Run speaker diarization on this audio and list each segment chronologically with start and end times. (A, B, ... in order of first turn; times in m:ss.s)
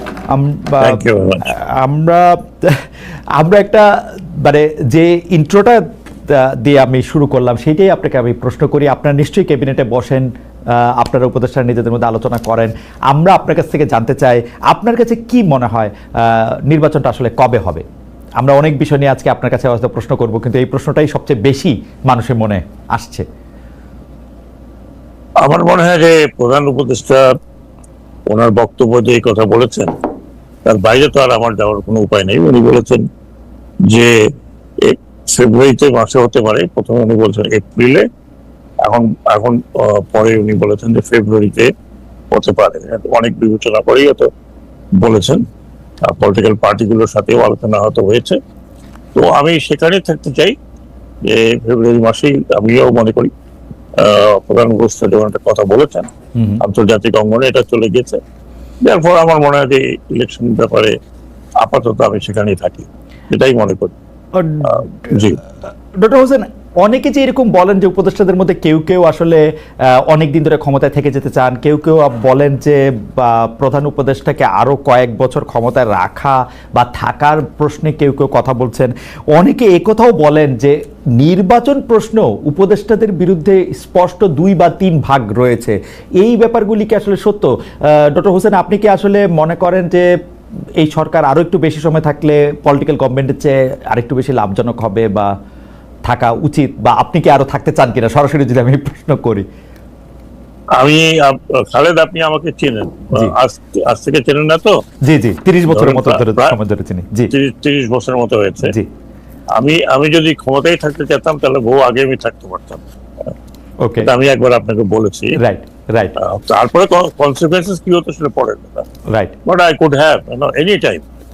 0:00.3-0:02.8 A
0:00.8-0:01.5 B
0:03.4-0:17.8 A
0:18.4-0:23.2 A
0:25.4-0:27.3 B
0:28.3-0:30.0 B
0:30.7-0:33.1 B
0:33.9-0:34.1 B
0:34.8-0:38.0 B
0:38.8-0:41.7 B
0:42.3-0:44.3 B
0:45.0-0:45.4 B
0:46.0-0:48.4 B
0:49.2-0:50.5 B
0:51.2-0:53.3 B
0:54.0-0:56.1 B
0:56.4-0:56.6 A
0:56.6-0:58.2 B
0:58.8-1:01.0 B
1:01.6-1:04.0 B
1:04.4-1:05.3 A
1:04.6-1:05.4 B
1:06.0-1:30.1 A
1:30.8-1:35.3 A
1:36.1-1:39.4 A
1:40.8-1:44.8 B
1:45.0-1:47.3 A
1:45.7-1:46.6 B
1:47.3-1:48.7 B
1:48.6-1:48.9 A
1:49.6-1:53.3 B
1:53.8-1:54.1 A
1:54.0-1:55.4 B
1:55.4-1:56.2 A
1:56.2-1:58.9 B
1:59.1-1:59.4 A
1:59.4-2:01.0 B